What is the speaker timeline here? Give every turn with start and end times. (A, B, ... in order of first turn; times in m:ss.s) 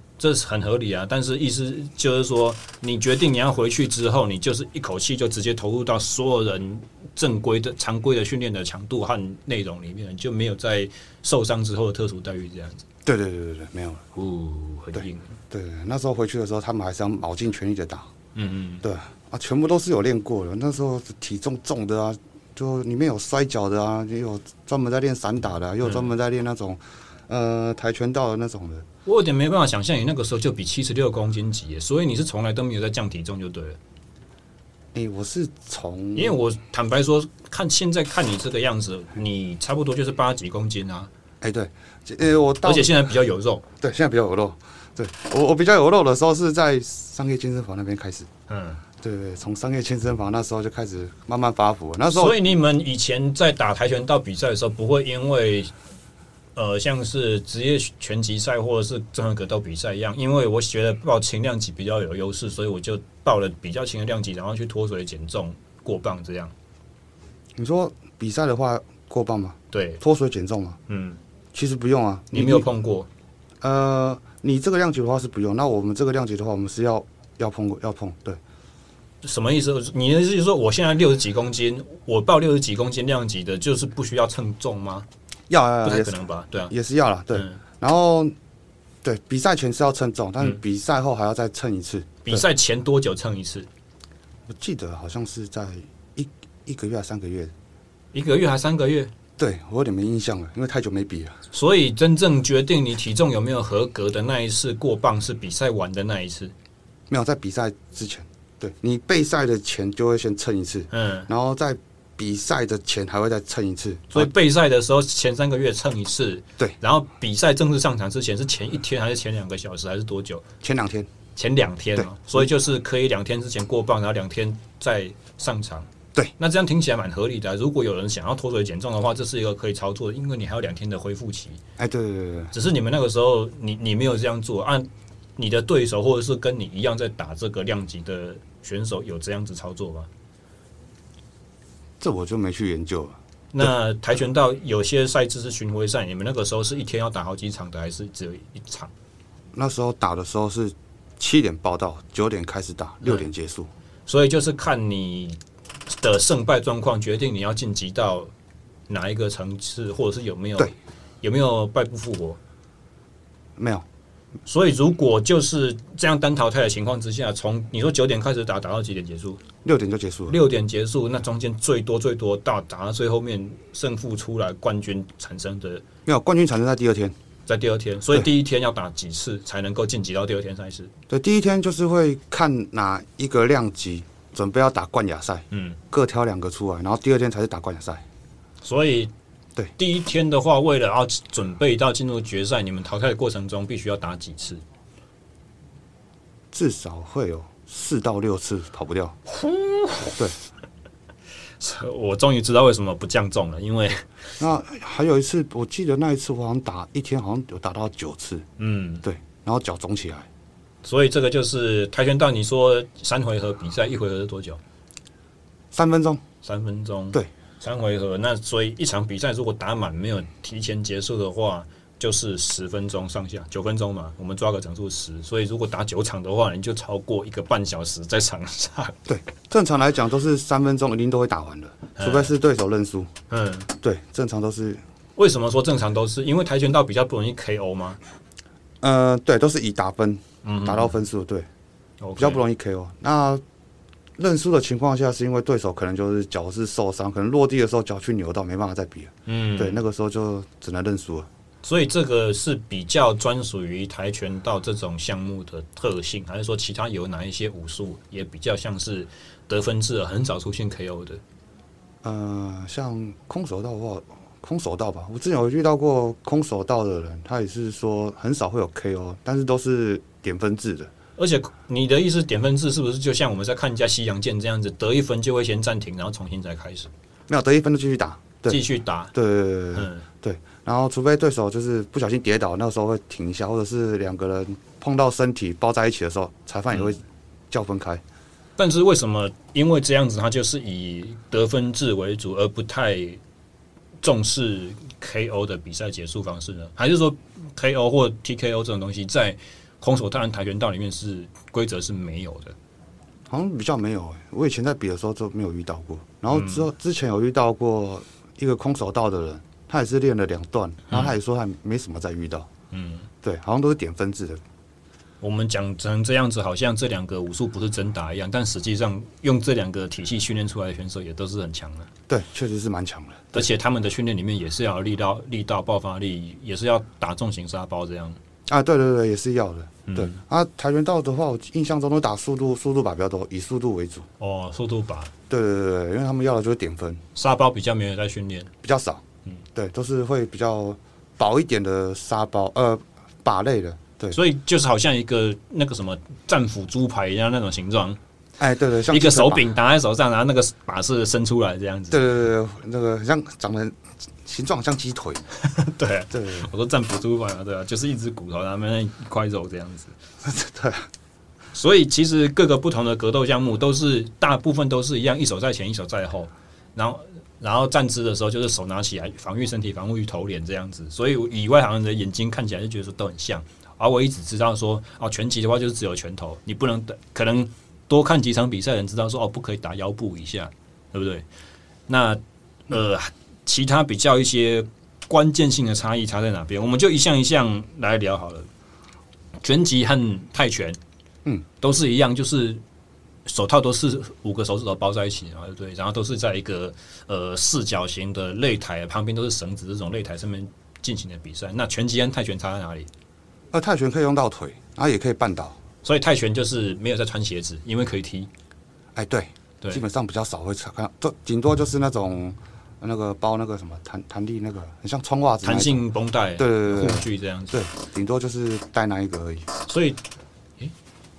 0:00.2-0:12.8 A
0:13.0-0:14.0 B
0:14.2-0:15.3 A
0:15.0-0:18.1 B
0:18.3-0:18.8 A
0:18.8-0:28.8 B
0:25.8-0:26.1 A
0:29.0-0:33.8 A
0:34.9-0:36.4 B
0:36.1-0:41.1 A
0:41.4-0:43.0 B
0:42.6-0:43.6 A
0:43.8-0:48.3 B
0:48.5-0:48.8 A
0:49.0-0:52.4 B
0:52.1-0:55.7 A
0:56.6-1:06.5 A
1:07.6-1:10.8 B
1:09.7-1:10.0 A
1:10.9-1:11.2 A
1:11.5-1:12.6 B
1:12.3-1:13.1 A
1:13.6-1:18.4 B
1:19.2-1:25.1 A
1:25.5-1:28.3 B
1:25.8-1:26.7 A
1:27.3-1:27.6 A
1:29.0-1:32.4 B
1:32.2-1:33.7 A
1:34.5-1:37.5 B
1:38.1-1:39.1 A
1:39.4-1:41.4 B
1:41.5-1:46.5 A
1:47.1-1:54.3 B
1:50.9-1:51.3 A
1:54.1-2:00.4 A
2:00.6-2:01.1 B
2:01.4-2:11.6 A
2:02.0-2:02.5 B
2:11.8-2:12.5 B
2:12.5-2:20.1 A
2:22.0-2:23.7 B
2:23.5-2:28.9 A
2:29.5-2:33.7 B
2:34.1-2:38.3 A
2:38.9-2:42.4 A
2:43.6-2:43.8 B
2:44.4-2:49.4 A
2:49.6-2:50.4 B
2:50.3-2:55.8 A
2:56.0-2:57.1 B
2:57.4-3:00.9 A
3:01.1-3:08.0 B
3:05.5-3:05.8 A
3:08.6-3:09.1 A
3:09.8-3:14.6 A
3:16.5-3:19.2 B
3:19.4-3:20.2 A
3:21.6-3:24.1 A
3:24.4-3:28.4 B
3:28.6-3:29.0 A
3:29.0-3:30.3 B
3:30.8-3:34.6 A
3:35.7-3:36.2 B
3:36.4-3:49.0 A
3:49.0-3:53.1 B
3:52.0-3:52.3 A
3:53.3-3:53.7 A
3:53.8-3:54.8 B
3:55.2-3:58.0 A
3:58.8-4:01.5 B
4:00.4-4:01.0 A
4:02.0-4:02.4 A
4:02.2-4:03.4 B
4:04.2-4:11.3 B
4:09.3-4:09.8 A
4:11.6-4:21.2 A
4:22.0-4:30.9 B
4:31.2-4:36.9 A
4:37.3-4:38.6 B
4:38.5-4:39.1 A
4:39.1-4:48.0 B
4:39.7-4:40.0 A
4:48.6-4:53.2 A
4:54.0-5:02.6 A
5:03.3-5:12.5 B
5:06.3-5:06.6 A
5:12.7-5:13.1 A
5:13.2-5:14.4 B
5:15.2-5:21.9 A
5:22.1-5:23.5 B
5:23.3-5:28.2 A
5:28.5-5:34.1 B
5:29.9-5:30.2 A
5:34.2-5:35.1 A
5:35.3-5:37.0 B
5:37.1-5:38.5 A
5:38.6-5:39.0 B
5:39.6-5:44.2 B
5:44.1-5:48.0 A
5:48.4-5:49.4 B
5:48.9-5:52.0 A
5:51.9-5:55.3 B
5:55.3-5:59.9 A
5:56.1-5:56.5 B
6:00.2-6:00.9 B
6:01.5-6:21.2 A
6:21.9-6:28.5 A
6:29.4-6:30.8 A
6:31.6-6:32.6 A
6:33.3-6:42.9 A
6:43.5-6:45.6 B
6:45.8-6:48.3 A
6:49.0-6:55.8 B
6:55.4-6:57.6 A
6:56.4-6:59.5 B
6:59.6-7:00.0 A